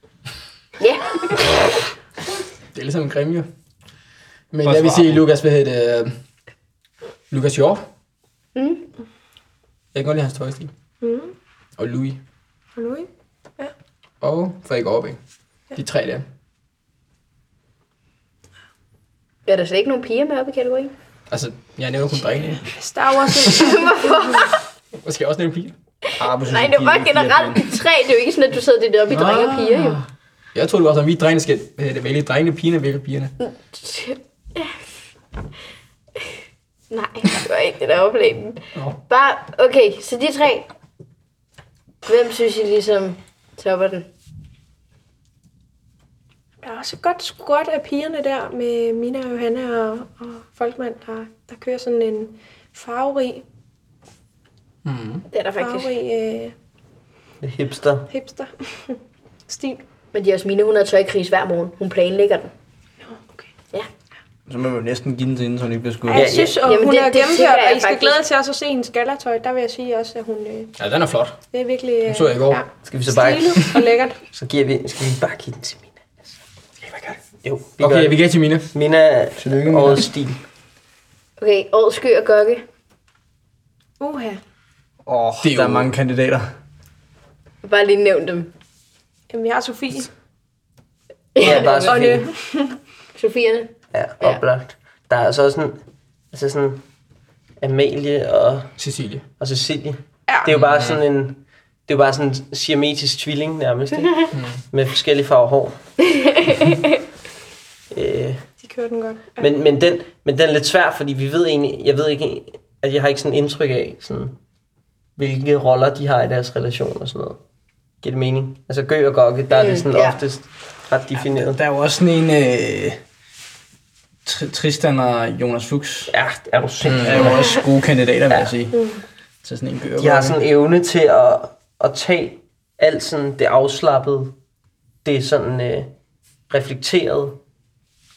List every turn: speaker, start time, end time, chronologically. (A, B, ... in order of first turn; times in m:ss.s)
0:00.8-0:01.5 A
0:02.7-0:03.5 B
0:04.5-0:06.2 B
0:04.6-0:05.2 C
0:07.3-0:07.8 B
0:08.5-0:08.8 A
0:09.9-0:10.7 B
0:11.0-0:11.3 D
0:11.8-0:12.2 B
0:12.8-0:13.7 D
0:14.2-0:15.2 B
0:15.7-0:16.2 B
0:19.5-0:20.9 A
0:21.3-0:22.7 B
0:22.7-0:24.1 D
0:23.5-0:24.6 A
0:25.0-0:25.7 B
0:26.2-0:27.7 C
0:26.4-0:30.0 A
0:29.1-0:30.0 B
0:30.5-0:33.3 B
0:33.4-0:34.7 A
0:36.9-0:40.7 A
0:42.0-0:44.1 A
0:46.6-0:53.4 D
0:54.8-0:55.2 B
0:55.3-0:55.9 A
0:55.6-0:56.5 D
0:57.4-0:58.1 E
0:58.1-0:59.8 D
1:00.1-1:02.5 A
1:03.0-1:03.5 D
1:04.5-1:06.3 C
1:06.1-1:10.7 D
1:06.1-1:06.6 E
1:06.6-1:08.2 A
1:10.8-1:11.4 B
1:11.5-1:14.2 D
1:12.0-1:12.6 B
1:12.8-1:13.7 E
1:14.3-1:16.3 E
1:16.8-1:17.2 B
1:17.4-1:20.4 E
1:17.8-1:18.7 B
1:19.4-1:20.0 B
1:21.4-1:22.6 A
1:24.0-1:24.4 D
1:25.0-1:26.5 C
1:25.4-1:25.9 B
1:27.6-1:28.5 A
1:29.3-1:30.1 D
1:31.3-1:32.2 A
1:31.4-1:32.3 E
1:31.8-1:32.8 D
1:33.2-1:34.4 A
1:33.9-1:35.8 E
1:36.3-1:36.8 E
1:37.6-1:38.8 E
1:38.8-1:39.2 B
1:39.4-1:45.8 E
1:40.3-1:40.5 D
1:44.3-1:44.6 B
1:47.9-1:48.4 E
1:48.6-1:49.5 D
1:49.4-1:54.4 E
1:55.2-1:57.4 E
1:58.0-2:01.6 E
1:59.5-2:00.2 A
2:01.3-2:03.0 C
2:04.2-2:06.1 C
2:06.1-2:07.5 E
2:06.9-2:08.9 C
2:06.9-2:07.2 B
2:08.7-2:09.0 D
2:09.4-2:10.4 C
2:10.0-2:14.3 E
2:15.0-2:15.9 E
2:16.5-2:17.4 E